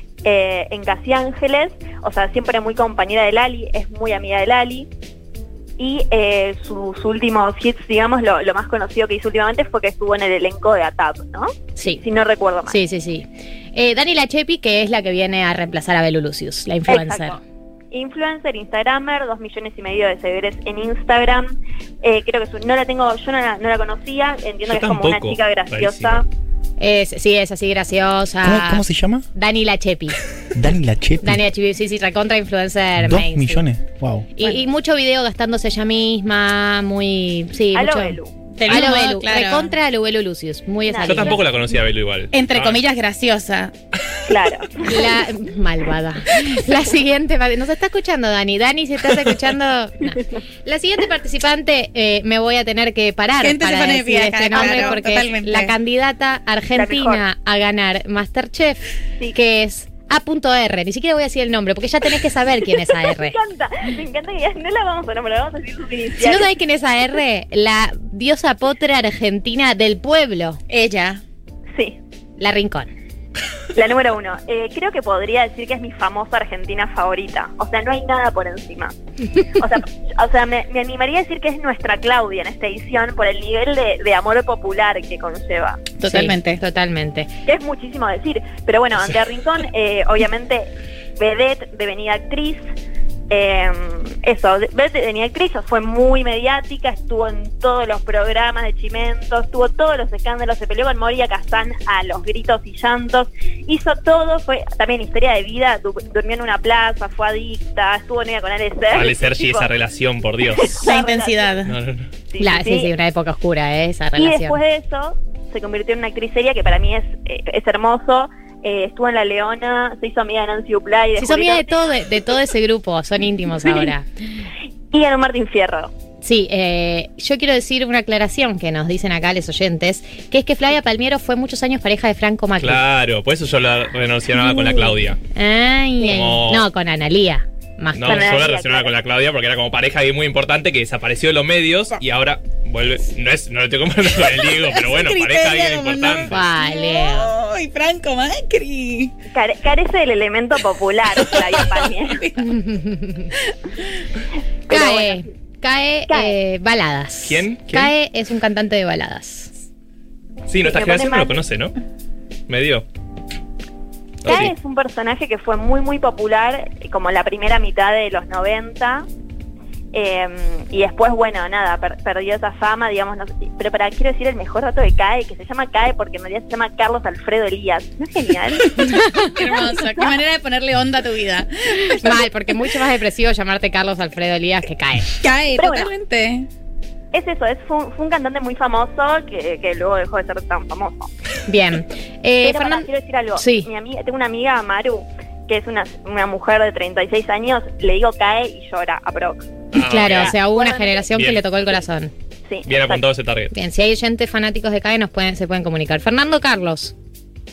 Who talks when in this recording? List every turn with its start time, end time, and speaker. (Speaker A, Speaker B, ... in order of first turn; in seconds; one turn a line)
Speaker A: 0.2-4.9
Speaker A: 5.8-12.8
Speaker B: 11.8-12.0
Speaker B: 12.7-17.4
Speaker A: 16.9-17.4
Speaker A: 17.9-26.3
Speaker C: 24.7-26.2
Speaker B: 26.8-30.2
Speaker D: 28.4-29.3
Speaker D: 30.6-31.4
Speaker B: 31.2-33.6
Speaker D: 33.0-34.3
Speaker B: 34.4-41.4
Speaker A: 37.7-38.9
Speaker E: 38.5-39.7
Speaker A: 40.9-41.4
Speaker C: 41.0-42.8
Speaker E: 42.3-43.7
Speaker A: 44.3-44.8
Speaker B: 44.8-58.8
Speaker E: 53.4-55.8
Speaker A: 56.7-57.2
Speaker B: 59.3-63.4
Speaker A: 63.1-66.5
Speaker B: 66.2-70.6
Speaker E: 70.7-71.2
Speaker B: 72.4-72.9
Speaker A: 73.7-79.0
Speaker A: 79.5-85.9
Speaker E: 86.0-86.6
Speaker B: 86.1-87.3
Speaker A: 87.5-92.6
Speaker A: 93.3-109.7
Speaker C: 108.9-110.9
Speaker A: 110.6-111.6
Speaker E: 110.8-111.8
Speaker C: 111.7-112.1
Speaker A: 112.3-112.9
Speaker B: 112.4-114.6
Speaker A: 114.2-121.9
Speaker B: 121.2-124.1
Speaker A: 124.9-125.9
Speaker B: 126.2-132.8
Speaker C: 132.6-135.2
Speaker B: 135.3-138.4
Speaker C: 136.0-136.7
Speaker C: 137.9-146.4
Speaker A: 138.1-138.9
Speaker E: 144.5-149.1
Speaker B: 146.3-147.3
Speaker A: 149.3-152.3
Speaker E: 152.0-152.8
Speaker B: 152.4-153.3
Speaker E: 153.4-153.9
Speaker A: 154.7-155.3
Speaker B: 154.7-159.5
Speaker A: 156.1-156.4
Speaker C: 157.2-157.9
Speaker C: 160.5-161.8
Speaker A: 160.6-161.4
Speaker C: 162.5-162.8
Speaker C: 164.2-164.5
Speaker A: 164.2-169.1
Speaker A: 169.9-179.0
Speaker E: 178.8-182.5
Speaker B: 179.0-179.3
Speaker A: 179.8-180.2
Speaker B: 181.9-185.2
Speaker E: 185.2-186.5
Speaker A: 185.6-185.9
Speaker A: 187.1-191.1
Speaker B: 191.5-193.7
Speaker A: 192.4-199.5
Speaker C: 199.7-200.4
Speaker B: 199.8-202.1
Speaker A: 200.1-201.1
Speaker C: 201.1-201.4
Speaker A: 202.5-203.1
Speaker C: 202.7-203.5
Speaker B: 203.5-206.9